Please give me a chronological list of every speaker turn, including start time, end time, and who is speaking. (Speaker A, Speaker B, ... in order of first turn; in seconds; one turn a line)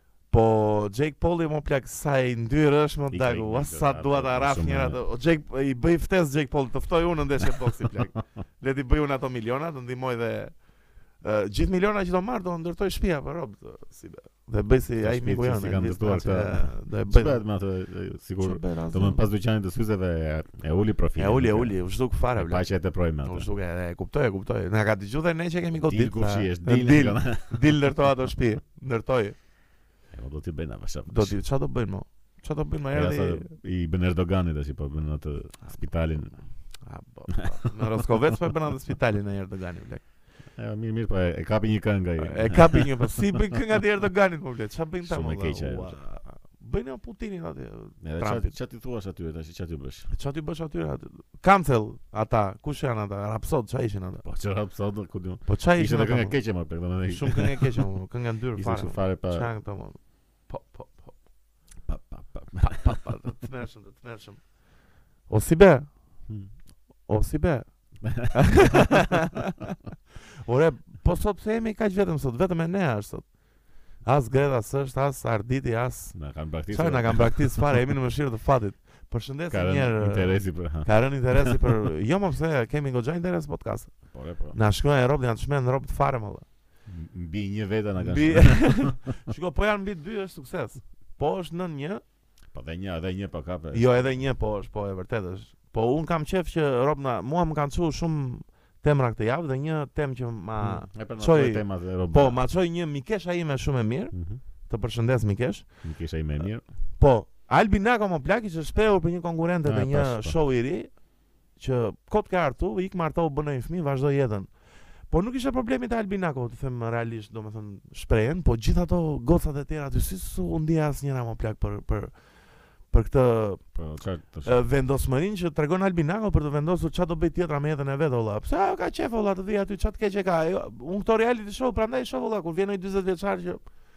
Speaker A: 0.3-10.6
Speaker B: 3.1-5.0
Speaker A: 11.2-17.4
Speaker B: 15.0-21.8
Speaker A: 18.4-19.2
Speaker A: 21.2-22.7
Speaker B: 22.4-23.5
Speaker A: 23.2-29.4
Speaker B: 25.8-27.7
Speaker B: 30.1-31.4
Speaker A: 31.1-33.5
Speaker B: 32.9-36.3
Speaker A: 36.3-40.0
Speaker B: 40.6-43.4
Speaker A: 42.2-48.5
Speaker B: 45.0-46.0
Speaker B: 48.0-50.1
Speaker A: 50.1-54.2
Speaker B: 54.2-57.8
Speaker A: 55.5-56.4
Speaker A: 57.1-61.1
Speaker B: 58.6-59.5
Speaker B: 61.9-63.0
Speaker A: 62.6-64.4
Speaker A: 65.3-65.9
Speaker A: 67.1-67.7
Speaker B: 68.0-69.0
Speaker A: 68.2-69.8
Speaker A: 70.4-73.3
Speaker A: 74.0-76.2
Speaker B: 76.1-77.8
Speaker A: 76.7-83.9
Speaker B: 79.5-81.6
Speaker B: 84.1-84.6
Speaker A: 84.5-86.5
Speaker B: 86.9-89.0
Speaker A: 88.0-92.0
Speaker B: 92.5-94.2
Speaker A: 93.7-104.1
Speaker B: 100.6-102.4
Speaker B: 104.1-104.4
Speaker A: 104.7-105.7
Speaker B: 105.8-106.7
Speaker A: 107.0-110.9
Speaker B: 109.7-110.3
Speaker A: 111.6-114.5
Speaker A: 115.1-122.1
Speaker A: 122.9-123.6
Speaker B: 123.8-124.5
Speaker A: 124.4-133.6